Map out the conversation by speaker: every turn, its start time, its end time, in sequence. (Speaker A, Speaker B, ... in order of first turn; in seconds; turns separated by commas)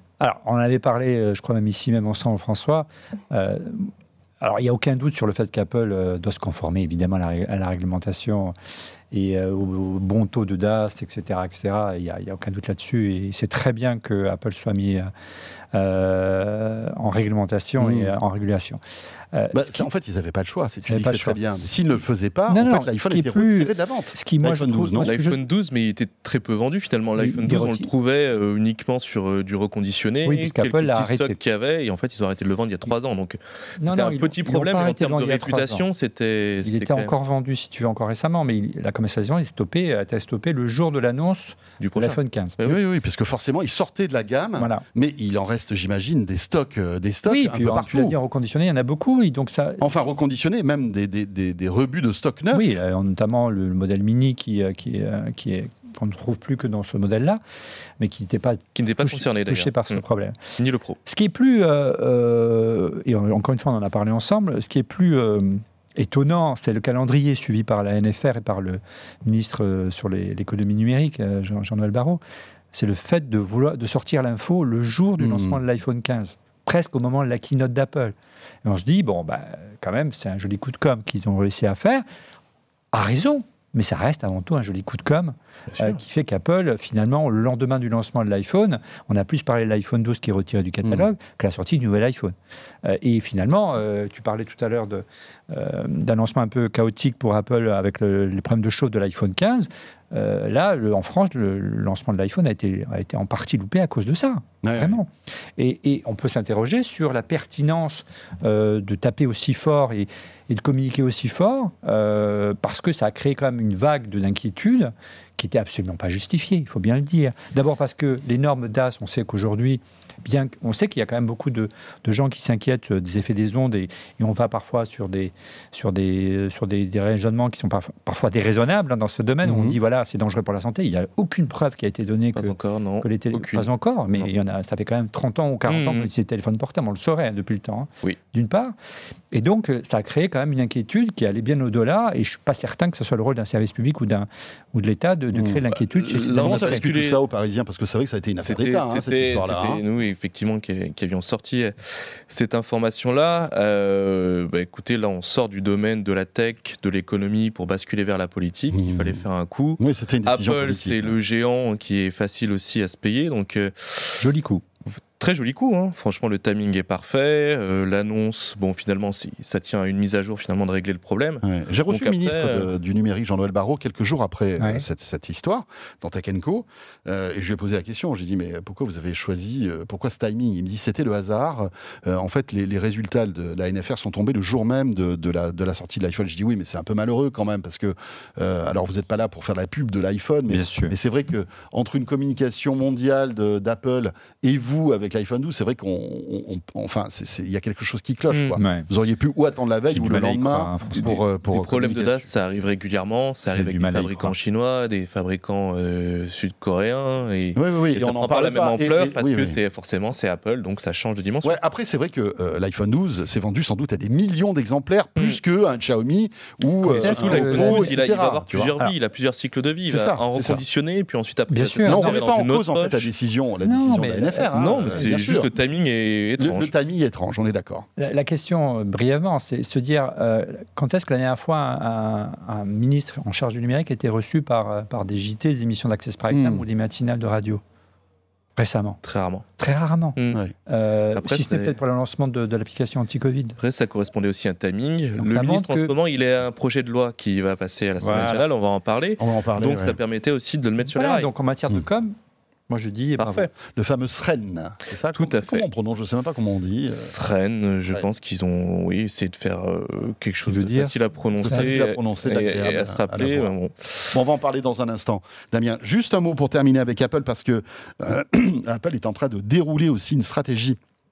Speaker A: 0.2-8.5, Speaker A: 9.1-15.1, Speaker A: 15.7-18.8, Speaker B: 17.8-18.1, Speaker A: 19.3-19.9, Speaker B: 19.5-25.1, Speaker A: 20.9-21.4, Speaker A: 22.5-25.4, Speaker C: 25.1-37.1, Speaker A: 27.2-27.9, Speaker A: 30.2-31.4, Speaker A: 33.8-35.8, Speaker A: 36.6-42.6, Speaker C: 41.8-42.8, Speaker B: 42.6-48.2, Speaker A: 44.6-44.8, Speaker A: 47.3-49.9, Speaker B: 49.8-52.7, Speaker A: 52.5-57.4, Speaker A: 58.0-60.4, Speaker C: 58.8-60.0, Speaker C: 60.6-61.0, Speaker A: 61.0-72.2, Speaker A: 72.7-78.1, Speaker B: 75.2-75.6, Speaker A: 78.7-82.0, Speaker A: 82.9-138.8, Speaker C: 85.7-86.0, Speaker B: 104.6-105.0, Speaker B: 129.4-129.8, Speaker C: 132.4-134.3, Speaker C: 135.7-136.1, Speaker A: 139.3-146.8, Speaker B: 145.3-145.6, Speaker C: 145.8-147.2, Speaker B: 146.3-149.8, Speaker C: 148.4-151.8, Speaker C: 152.3-164.2, Speaker B: 158.7-159.2, Speaker B: 159.8-161.2, Speaker A: 164.2-164.6, Speaker C: 165.2-172.7, Speaker B: 171.4-202.3, Speaker A: 174.6-174.8, Speaker A: 190.5-190.9, Speaker C: 198.3-198.6, Speaker A: 198.6-198.9, Speaker A: 199.9-201.2, Speaker C: 201.0-211.6, Speaker A: 203.6-204.3, Speaker B: 207.6-209.6, Speaker B: 211.4-218.7, Speaker A: 216.8-218.0, Speaker C: 216.9-223.1, Speaker B: 219.9-220.6, Speaker A: 221.5-222.2, Speaker B: 221.8-225.5, Speaker A: 223.6-225.2, Speaker C: 224.5-226.7, Speaker B: 226.4-227.9, Speaker A: 228.0-237.6, Speaker B: 236.3-236.7, Speaker A: 238.6-239.0, Speaker C: 239.0-239.5, Speaker A: 239.6-240.2, Speaker C: 240.2-240.4, Speaker A: 240.7-243.6, Speaker C: 241.1-241.8, Speaker C: 243.6-251.3, Speaker A: 245.2-245.9, Speaker A: 248.0-248.4, Speaker B: 249.2-250.0, Speaker A: 250.9-252.2, Speaker A: 252.7-253.5, Speaker C: 253.2-253.5, Speaker B: 253.7-257.2, Speaker C: 255.1-255.6, Speaker C: 256.9-264.2, Speaker A: 260.5-261.7, Speaker B: 261.4-263.5, Speaker B: 264.1-270.8